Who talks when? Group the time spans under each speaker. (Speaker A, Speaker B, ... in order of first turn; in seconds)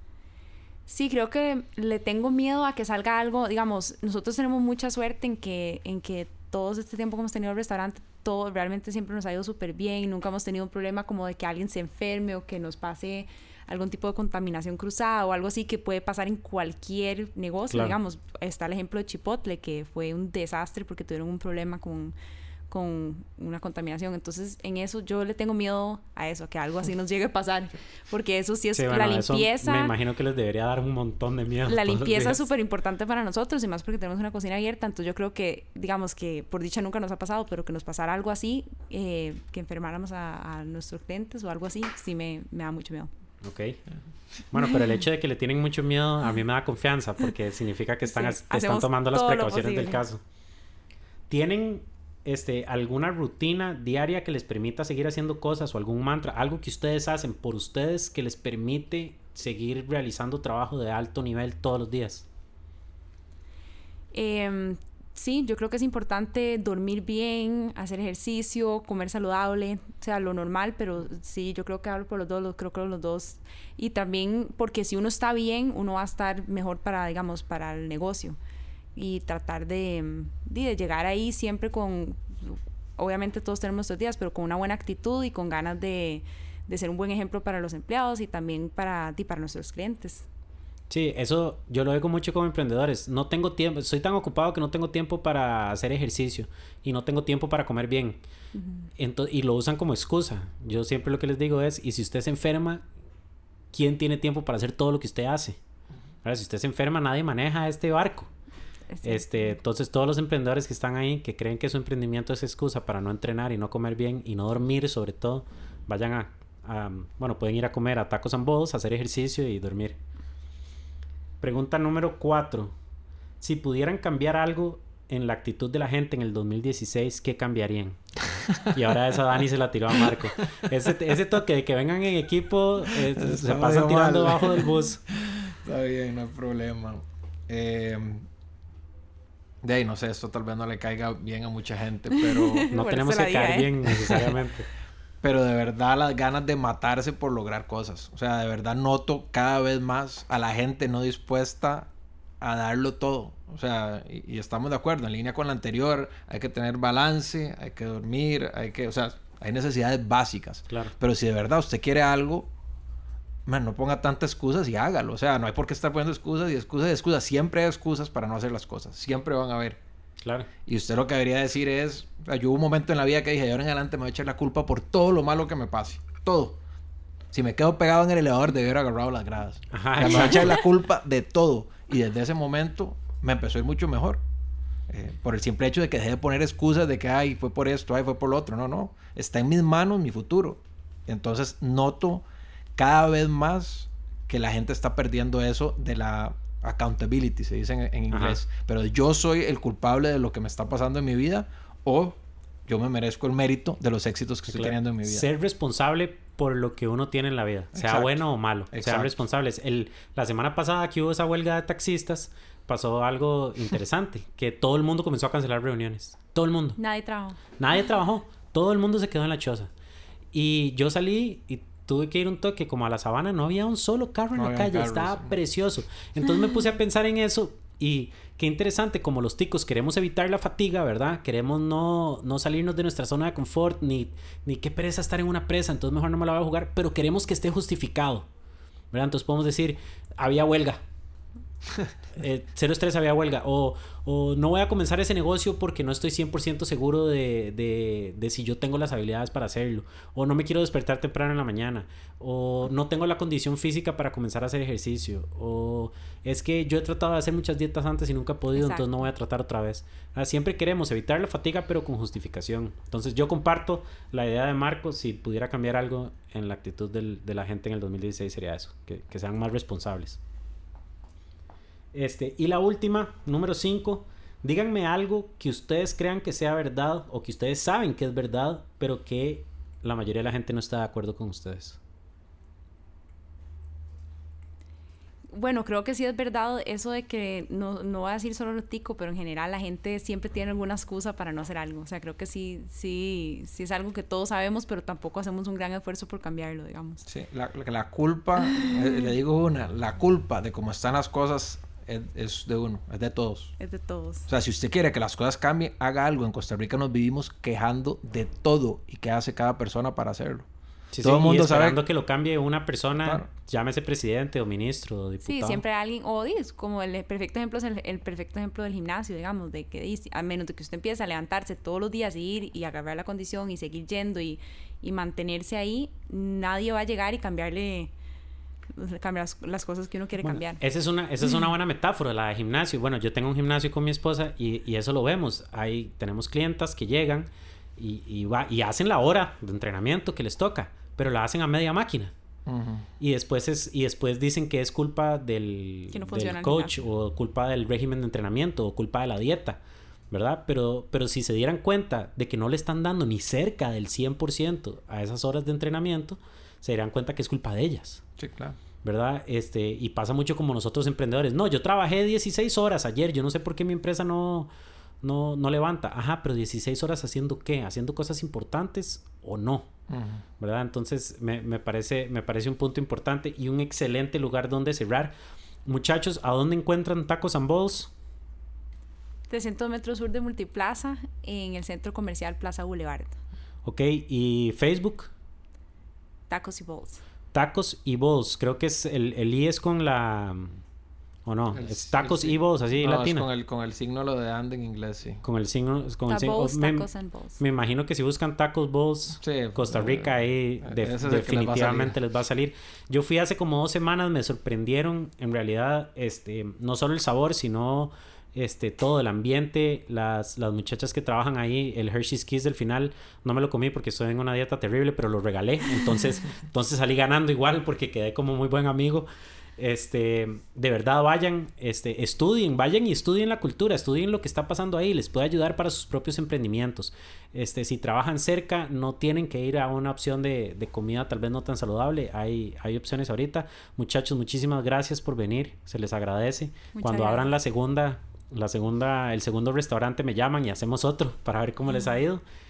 Speaker A: 0.9-22.1, 22.7-29.9, 31.7-43.1, 48.1-50.0, 64.1-78.4, 79.0-90.3, 98.5-98.9, 108.9-109.6, 142.1-144.3, 216.8-217.4, 258.6-259.1, 285.3-297.0, 303.6-304.3, 315.2-327.9, 328.7-330.6, 345.9-346.8, 379.3-383.2, 386.3-387.0, 396.1-397.4, 436.7-437.3
Speaker B: 17.7-18.0, 28.7-32.4, 43.4-43.8, 44.5-50.2, 51.3-62.3, 90.9-98.2, 99.0-102.8, 103.7-105.6, 106.2-108.3, 109.0-120.0, 121.4-122.7, 123.4-128.0, 128.5-135.0, 142.7-144.7, 170.2-170.5, 179.7-180.6, 198.1-198.4, 204.5-216.8, 217.6-219.7, 220.3-238.3, 238.9-240.8, 242.2-270.2, 271.9-281.8, 310.9-315.6, 330.2-342.1, 343.0-349.6, 350.1-358.0, 358.8-364.5, 365.0-369.7, 370.4-375.1, 375.7-377.9, 383.6-385.1, 387.3-390.6, 391.3-393.3, 395.2-396.9, 397.4-442.2
Speaker C: 128.5-128.8, 132.9-138.3, 139.6-142.7, 145.2-151.9, 152.4-162.5, 163.5-169.8, 170.7-176.6, 177.3-184.2, 184.9-192.2, 192.8-205.3, 207.7-209.2, 224.3-225.4, 297.1-303.6, 304.3-310.5, 311.0-311.8, 342.5-342.9, 358.2-358.6, 369.9-370.2, 391.5-395.2, 399.2-402.0